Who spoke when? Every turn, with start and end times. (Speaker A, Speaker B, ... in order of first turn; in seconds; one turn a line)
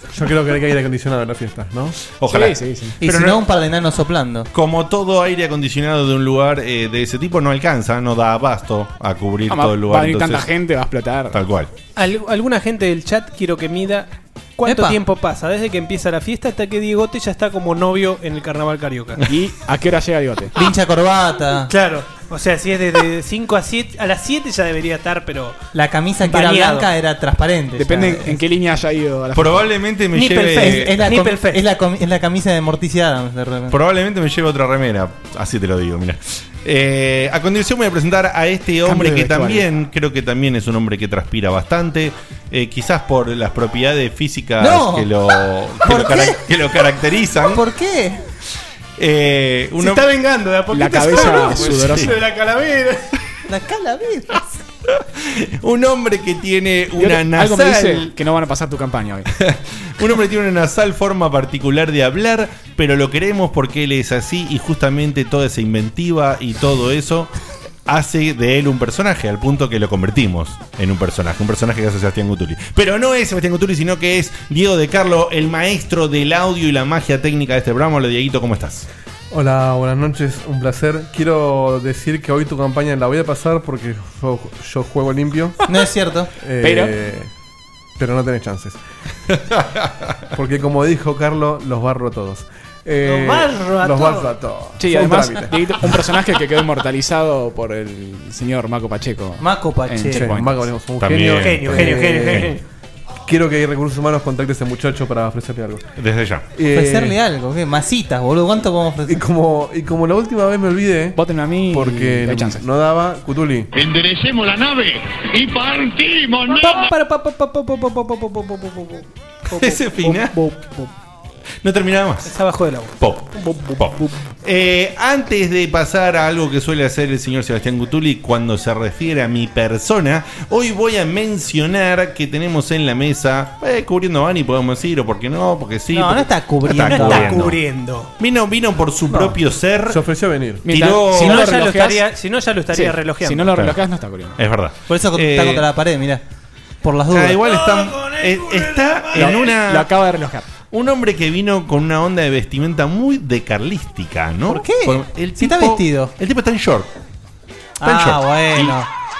Speaker A: 0.1-1.9
Speaker B: 2.2-3.4
Speaker C: 2.3-3.0
Speaker D: 3.0-4.5
Speaker B: 4.5-10.5
Speaker C: 9.5-11.4
Speaker B: 11.3-11.7
Speaker E: 11.9-19.2
Speaker D: 14.6-15.0
Speaker C: 19.2-20.5
Speaker D: 20.5-21.7
Speaker E: 21.7-25.6
Speaker D: 25.7-28.4
Speaker E: 26.2-26.9
Speaker C: 27.8-29.7
Speaker B: 29.3-31.0
Speaker E: 30.1-31.6
Speaker D: 30.4-33.8
Speaker B: 33.7-47.6
Speaker C: 38.9-39.6
Speaker D: 44.6-45.1
Speaker D: 45.8-46.4
Speaker D: 47.5-48.2
Speaker B: 49.0-50.1
Speaker E: 49.8-53.1
Speaker C: 50.7-52.1
Speaker B: 51.3-52.1
Speaker D: 53.5-54.5
Speaker B: 54.9-58.1
Speaker C: 57.0-59.3
Speaker B: 59.4-67.3
Speaker B: 67.8-78.9
Speaker A: 79.3-85.6
Speaker D: 85.7-86.3
Speaker A: 86.4-87.3
Speaker C: 86.6-87.0
Speaker A: 88.0-88.8
Speaker B: 89.6-89.9
Speaker A: 90.3-95.7
Speaker E: 93.0-94.3
Speaker C: 94.8-100.7
Speaker D: 99.4-100.3
Speaker A: 100.1-102.5
Speaker B: 101.0-102.5
Speaker E: 101.3-102.6
Speaker A: 103.3-105.8
Speaker B: 106.0-106.5
Speaker A: 106.5-107.1
Speaker D: 106.7-109.2
Speaker A: 109.1-111.2
Speaker C: 111.1-112.6
Speaker A: 111.7-113.7
Speaker F: 113.7-116.8
Speaker E: 116.6-120.9
Speaker B: 119.5-120.3
Speaker B: 121.6-122.3
Speaker E: 122.2-124.1
Speaker B: 123.0-137.6
Speaker D: 135.9-137.4
Speaker E: 136.7-138.1
Speaker B: 138.2-140.0
Speaker A: 139.1-140.7
Speaker C: 140.6-142.0
Speaker B: 140.7-141.6
Speaker E: 141.1-143.5
Speaker C: 142.7-144.4
Speaker B: 143.5-143.8
Speaker B: 144.4-145.7
Speaker D: 144.9-146.2
Speaker D: 146.8-147.6
Speaker B: 147.1-149.9
Speaker E: 147.5-149.5
Speaker C: 149.1-150.4
Speaker B: 150.7-156.9
Speaker D: 154.5-156.1
Speaker D: 157.8-158.9
Speaker B: 157.8-158.8